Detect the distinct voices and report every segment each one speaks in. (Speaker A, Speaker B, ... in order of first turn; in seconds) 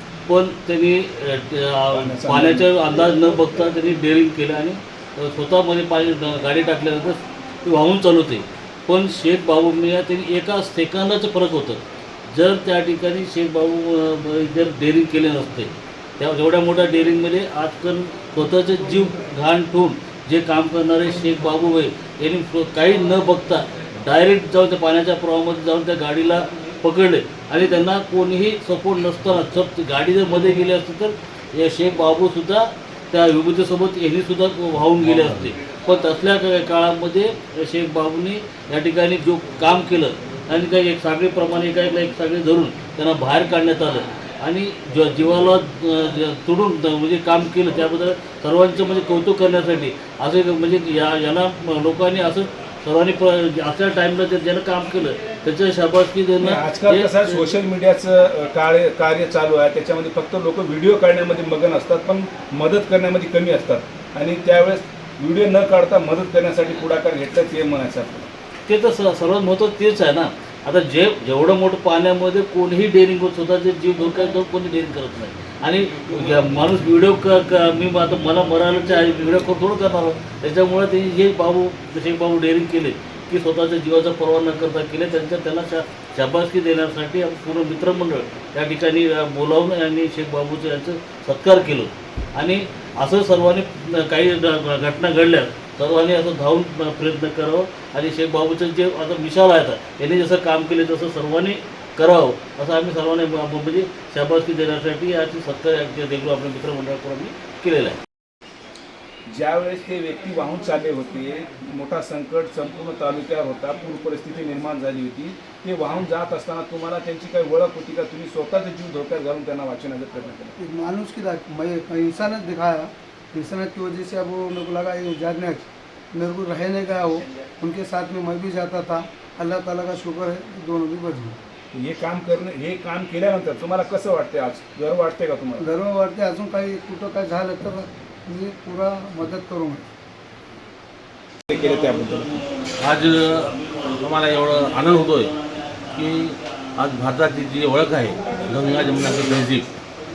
Speaker A: 0.3-57.5, 68.7-108.0
Speaker B: 1.9-2.7, 56.4-68.3, 109.3-120.5, 131.7-135.7, 141.5-142.3
Speaker C: 35.1-35.4, 142.8-145.3, 145.9-149.7
Speaker D: 120.6-131.3, 135.6-139.8